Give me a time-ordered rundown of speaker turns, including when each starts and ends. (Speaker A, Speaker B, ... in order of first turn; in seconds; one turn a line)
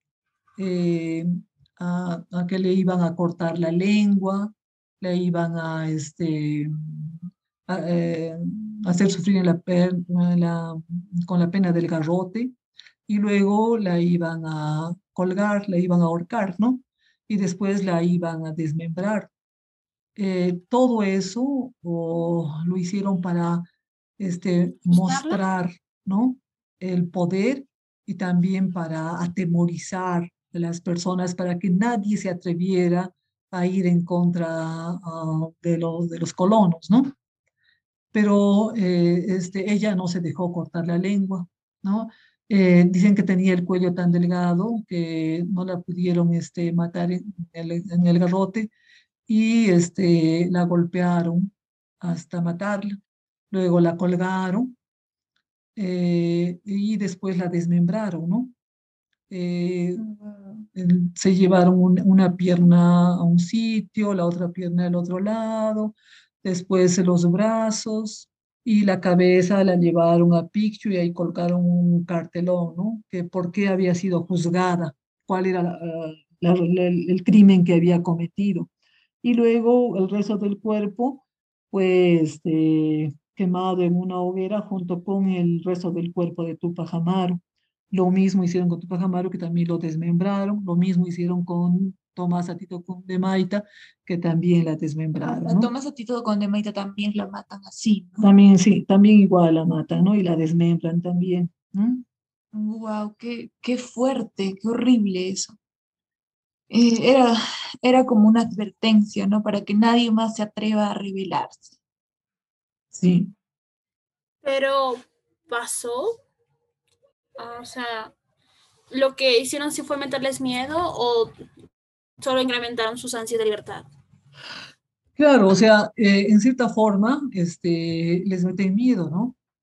Speaker A: 0.6-12.5
Speaker A: 13.1-19.3
Speaker A: 20.1-23.7
Speaker A: 24.2-37.1
Speaker B: 24.9-25.4
Speaker A: 38.1-48.7
Speaker A: 49.3-53.0
Speaker A: 53.5-54.7
Speaker A: 55.8-58.5
Speaker A: 59.3-60.0
Speaker C: 60.0-60.6
Speaker A: 60.7-78.7
Speaker A: 79.2-87.4
Speaker A: 87.9-95.7
Speaker C: 95.2-98.3
Speaker A: 98.2-102.0
Speaker C: 102.5-105.6
Speaker C: 106.7-111.7
Speaker A: 112.9-113.3
Speaker B: 114.4-116.2
Speaker B: 117.4-118.1
Speaker B: 118.9-121.3
Speaker B: 122.2-123.9
Speaker A: 125.2-129.3